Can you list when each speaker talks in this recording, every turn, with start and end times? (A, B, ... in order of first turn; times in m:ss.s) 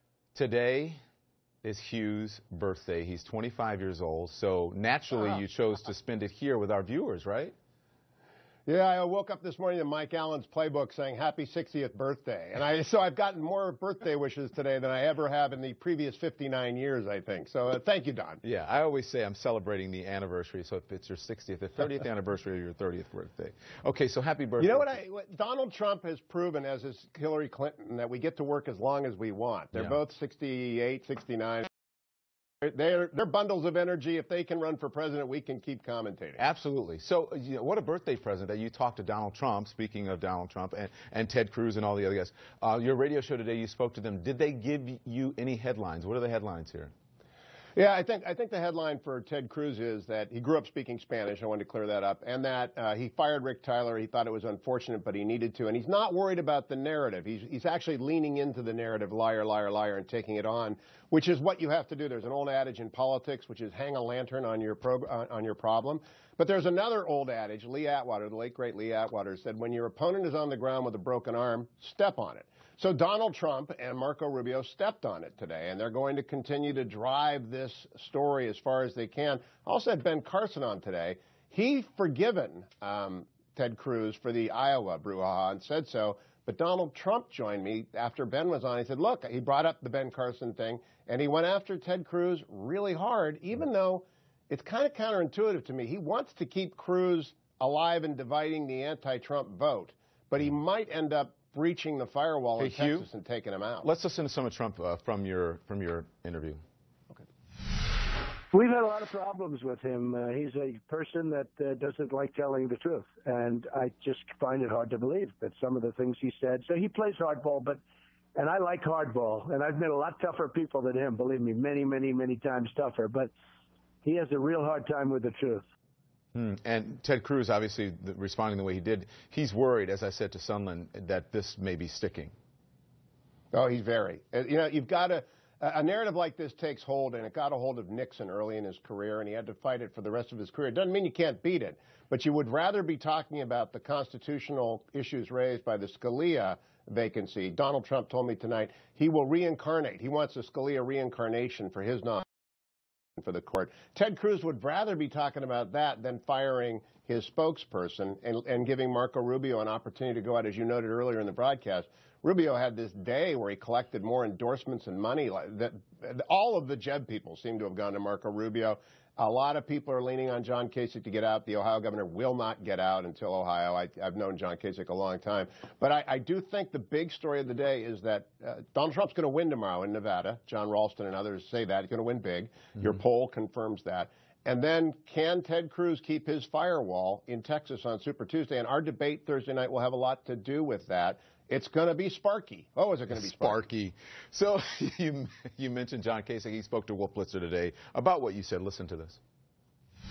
0:00.3-0:01.0 A
0:01.6-0:07.5 A
0:08.6-0:18.4 B
0:18.4-0:24.9 A
0:24.6-0:31.7 B
0:32.6-0:36.4 B
0:36.4-0:46.9 A
0:47.7-1:43.9 B
1:42.6-1:43.0 A
1:43.8-1:46.6 A
1:48.5-1:57.8 C
1:58.4-2:03.3 C
2:04.0-2:05.6 C
2:06.3-2:12.3 A
2:13.5-2:32.2 B
2:33.2-3:13.6 B
3:13.1-3:19.2 A